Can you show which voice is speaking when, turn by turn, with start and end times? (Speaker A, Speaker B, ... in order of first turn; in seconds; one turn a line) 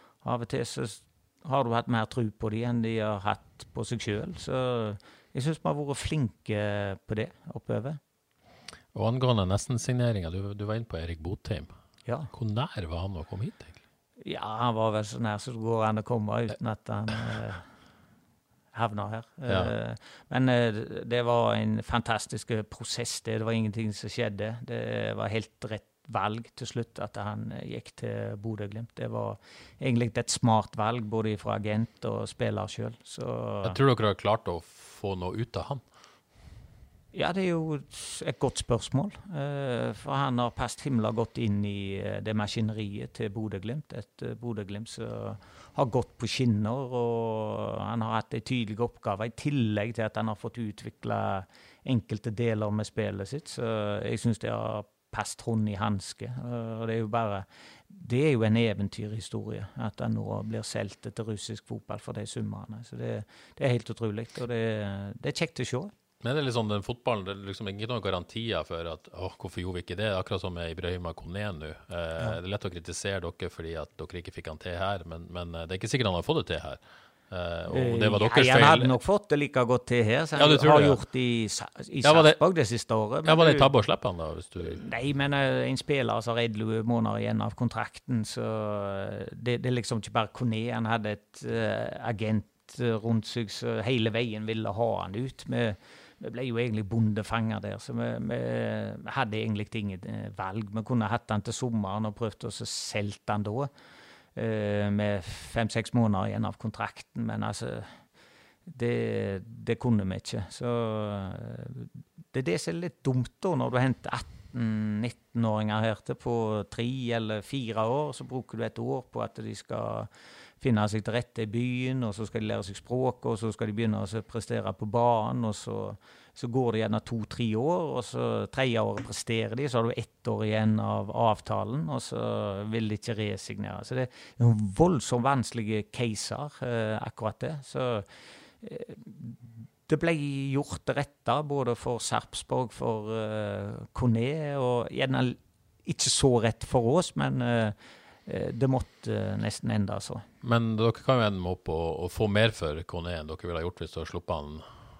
Speaker A: 0.2-8.0
Speaker B: 8.9-11.7
Speaker B: 12.3-13.8
Speaker A: 14.2-17.6
Speaker A: 18.7-33.8
Speaker B: 19.5-19.7
Speaker B: 33.6-35.8
Speaker A: 37.1-65.9
Speaker B: 66.2-78.9
Speaker A: 77.7-83.7
Speaker B: 80.3-81.0
Speaker B: 82.0-82.4
Speaker B: 83.2-84.8
Speaker A: 84.6-103.7
Speaker A: 104.3-107.9
Speaker A: 108.7-120.1
Speaker A: 120.6-138.1
Speaker A: 138.6-150.2
Speaker B: 150.4-154.7